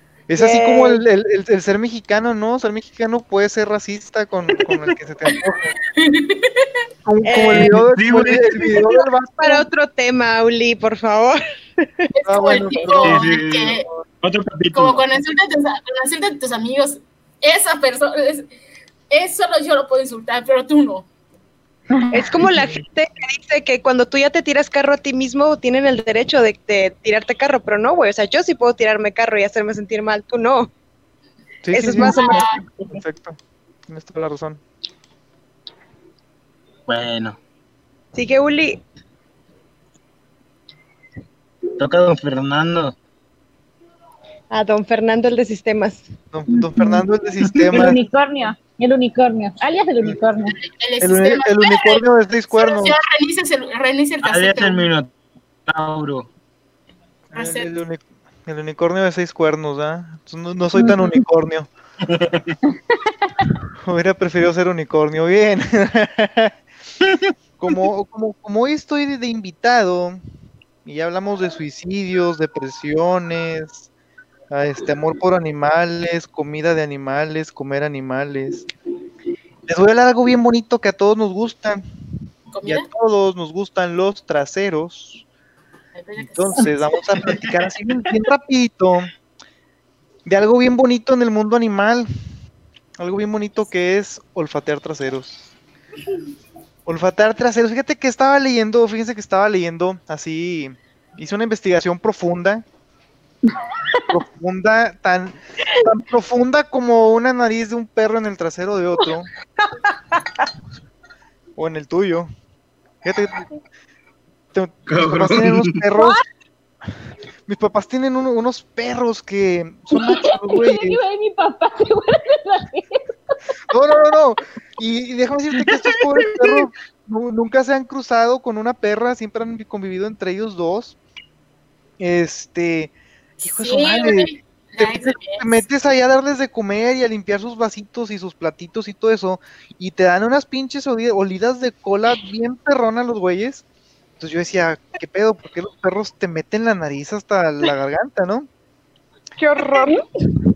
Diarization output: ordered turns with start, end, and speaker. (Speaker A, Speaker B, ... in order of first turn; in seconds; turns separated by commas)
Speaker A: 0.3-5.8, Speaker B: 0.4-1.0, Speaker C: 6.0-6.7, Speaker A: 7.0-9.6, Speaker B: 7.2-12.0, Speaker D: 7.4-8.6, Speaker C: 12.1-13.8, Speaker A: 12.2-13.4, Speaker D: 13.0-15.1, Speaker C: 14.7-18.5, Speaker C: 19.1-21.1, Speaker E: 21.9-22.3, Speaker B: 22.1-30.7, Speaker A: 31.6-34.6, Speaker B: 31.7-32.5, Speaker E: 32.0-33.0, Speaker C: 32.0-32.6, Speaker D: 36.9-37.4, Speaker B: 38.1-38.8, Speaker D: 41.8-42.9, Speaker B: 44.5-46.1, Speaker A: 46.3-48.0, Speaker E: 46.5-47.0, Speaker D: 47.4-47.9, Speaker E: 47.7-50.5, Speaker C: 50.6-54.9, Speaker A: 51.0-53.0, Speaker D: 54.2-55.1, Speaker D: 55.7-56.3, Speaker A: 57.3-61.7, Speaker C: 57.3-57.8, Speaker E: 60.8-61.2, Speaker D: 62.1-62.5, Speaker A: 63.8-66.5, Speaker D: 67.0-67.3, Speaker A: 67.6-70.2, Speaker A: 70.8-73.9, Speaker A: 74.5-78.7, Speaker A: 79.7-81.8, Speaker C: 82.5-82.9, Speaker A: 82.6-85.2, Speaker C: 85.9-87.2, Speaker A: 86.2-89.1, Speaker A: 90.2-92.1, Speaker A: 93.0-95.5, Speaker A: 96.8-102.6, Speaker E: 103.5-104.0, Speaker A: 104.1-109.3, Speaker B: 109.7-110.5, Speaker A: 111.6-112.3, Speaker A: 113.0-113.4, Speaker A: 114.5-116.2, Speaker D: 114.9-115.8, Speaker A: 117.4-121.0, Speaker E: 119.9-123.0, Speaker A: 123.7-131.0, Speaker D: 125.8-126.6, Speaker A: 132.0-143.6, Speaker C: 133.4-135.6, Speaker A: 144.2-148.5, Speaker B: 149.4-150.0, Speaker E: 149.7-150.0